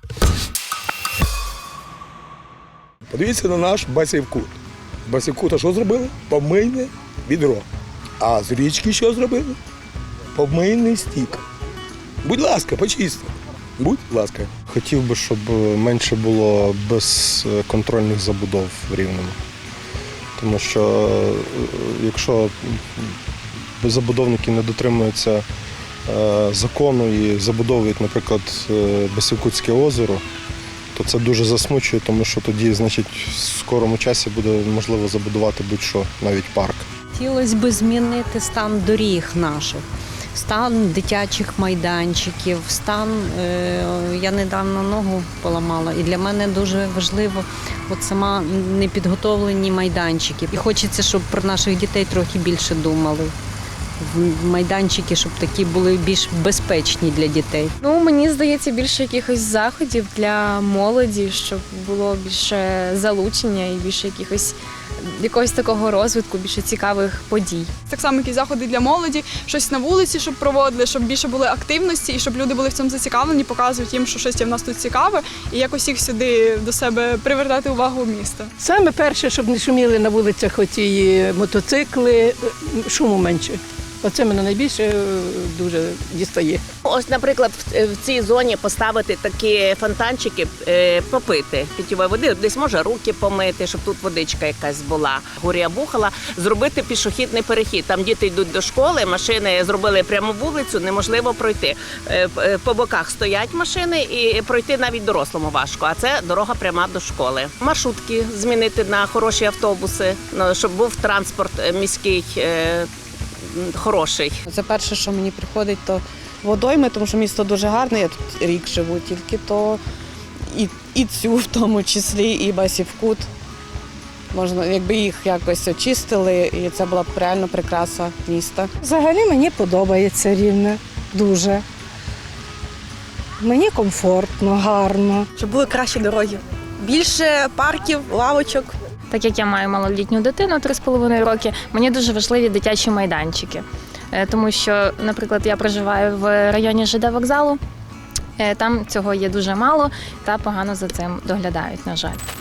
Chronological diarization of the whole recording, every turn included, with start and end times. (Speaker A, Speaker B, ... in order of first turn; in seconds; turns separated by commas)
Speaker A: 3.1-7.7, Speaker A: 8.2-9.6, Speaker A: 10.3-11.4, Speaker A: 12.2-14.5, Speaker B: 14.7-19.4, Speaker B: 20.4-23.1, Speaker B: 23.8-25.4, Speaker B: 26.1-30.2, Speaker B: 30.9-36.9, Speaker C: 37.1-53.3, Speaker C: 54.0-57.7, Speaker D: 57.8-67.7, Speaker E: 67.9-78.5, Speaker F: 78.6-86.6, Speaker G: 86.8-112.9, Speaker G: 113.5-114.4, Speaker H: 114.5-119.8, Speaker H: 120.6-123.2, Speaker H: 124.3-128.6, Speaker I: 128.9-131.6, Speaker I: 133.4-135.2, Speaker J: 139.1-147.6, Speaker J: 148.4-152.2